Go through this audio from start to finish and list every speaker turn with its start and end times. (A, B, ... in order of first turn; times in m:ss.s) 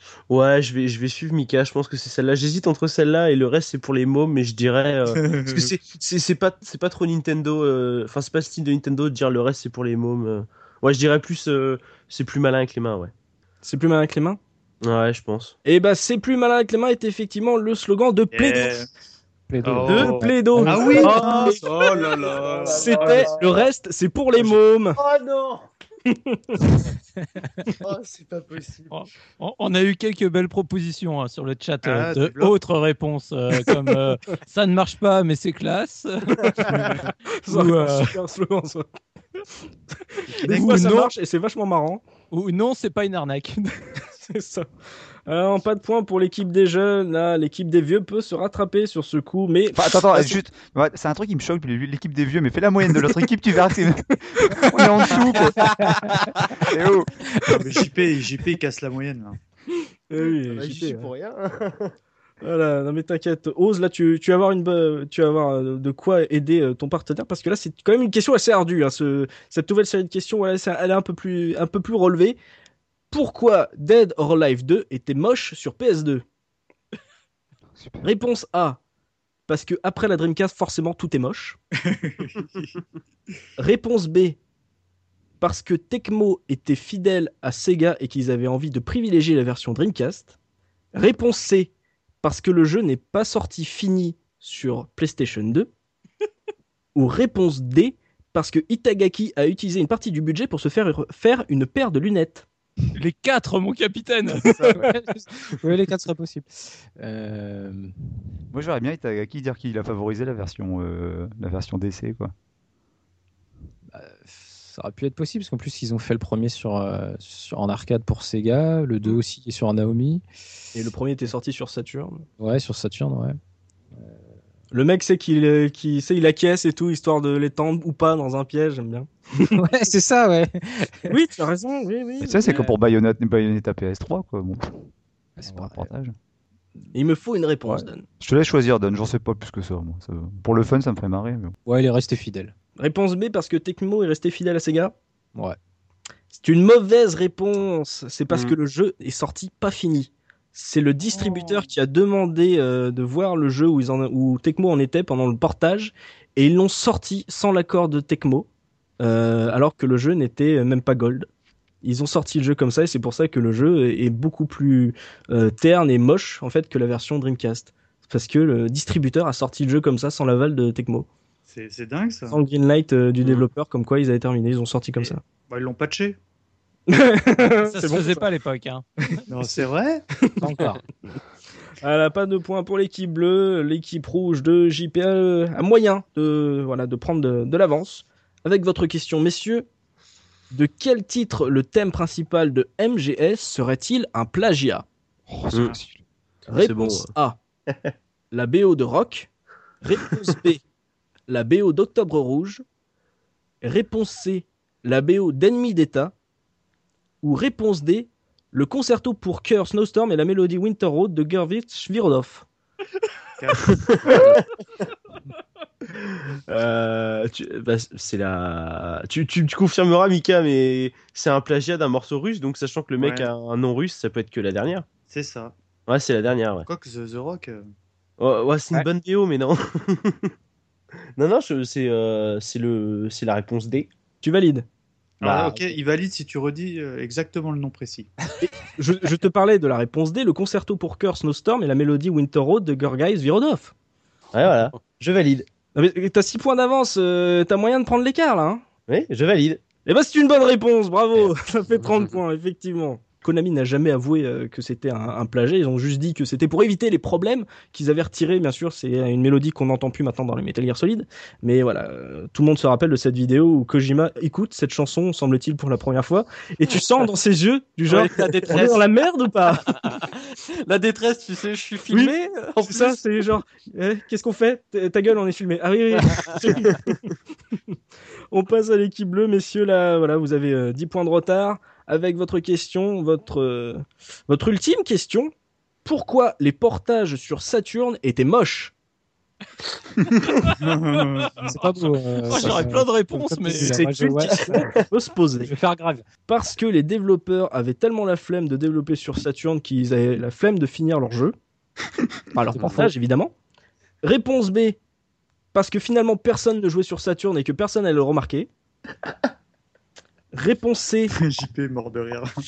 0:00.3-0:13.1 A
0:05.1-0:05.7 B
0:13.6-0:14.4 C
0:14.8-0:15.5 A
0:15.6-0:18.8 C
0:18.3-0:18.9 B
0:19.5-0:21.2 D
0:19.6-0:23.3 B
0:19.8-0:21.6 C
0:21.0-0:23.7 A
0:22.7-0:25.0 C
0:24.5-0:25.7 A
0:26.1-0:26.6 C
0:27.8-0:28.9 A
0:28.9-0:36.8 E
0:31.8-0:32.6 B
0:36.4-0:38.8 C
0:36.7-0:37.0 B
0:37.5-0:38.2 E
0:40.1-0:42.0 C
0:40.4-0:40.7 B
0:40.4-0:41.1 E
0:42.3-0:43.9 E
0:44.2-0:44.7 C
0:45.3-0:50.4 C
0:49.7-0:57.1 F
0:55.6-0:56.1 D
0:57.5-0:59.4 B
1:00.1-1:01.1 C
1:00.4-1:01.9 A
1:02.4-1:12.4 C
1:13.1-1:16.2 C
1:17.8-1:18.1 F
1:18.0-1:18.8 C
1:19.5-1:21.6 C
1:21.9-1:22.8 B
1:23.6-1:24.4 C
1:25.4-1:30.3 C
1:30.9-1:35.7 C
1:36.9-1:42.4 C
1:42.9-1:44.8 E
1:44.6-1:47.9 D
1:48.5-1:52.3 F
1:53.9-2:00.2 D
2:00.7-2:02.2 C
2:02.4-2:03.4 D
2:03.9-2:04.2 D
2:04.7-2:09.6 C
2:09.5-2:11.1 D
2:11.1-2:12.6 C
2:12.2-2:14.8 F
2:15.4-2:15.9 D
2:15.4-2:16.1 F
2:16.9-2:18.0 C
2:18.2-2:21.5 F
2:21.6-2:22.5 D
2:22.8-2:24.9 C
2:26.3-2:38.5 C
2:28.3-2:28.6 A
2:31.1-2:31.5 B
2:39.0-2:41.3 C
2:41.8-2:51.1 C
2:51.5-2:52.4 B
2:52.3-2:55.2 C
2:55.0-2:56.2 B
2:56.9-2:58.3 C
2:57.6-2:58.8 E
2:59.3-3:00.0 B
3:00.4-3:00.8 D
3:01.8-3:09.6 C
3:10.5-3:14.8 C
3:15.3-3:16.0 F
3:16.5-3:17.1 A
3:16.5-3:17.4 C
3:18.3-3:19.3 C
3:19.8-3:20.6 C
3:21.3-3:22.6 C
3:23.6-3:26.1 C
3:27.2-3:32.4 C
3:33.4-3:34.3 B
3:33.8-3:34.4 A
3:36.0-3:44.8 A
3:43.0-3:43.3 B
3:45.1-3:45.5 B
3:45.9-3:46.7 A
3:46.7-3:47.7 B
3:48.2-3:50.3 A
3:51.2-3:53.9 A
3:54.2-3:54.6 C
3:55.2-3:58.1 B
3:55.2-3:55.7 A
3:58.4-4:03.7 C
4:04.3-4:05.5 A
4:04.5-4:04.8 G
4:05.7-4:08.6 C
4:08.9-4:09.6 A
4:09.8-4:29.8 C
4:11.8-4:12.2 G
4:27.9-4:28.9 G
4:29.7-4:33.0 G
4:31.9-4:36.9 C
4:36.1-4:36.4 G
4:38.3-4:45.3 C
4:45.8-4:48.7 C
4:50.0-4:51.5 B
4:50.3-4:50.5 E
4:51.4-4:54.7 D
4:51.4-4:53.8 E
4:53.5-4:55.5 C
4:54.2-4:54.9 A
4:55.4-4:56.0 D
4:56.3-5:01.3 C
5:02.3-5:03.3 C
5:02.6-5:02.9 G
5:04.0-5:04.8 C
5:05.5-5:08.5 C
5:10.3-5:11.1 C
5:11.1-5:12.3 B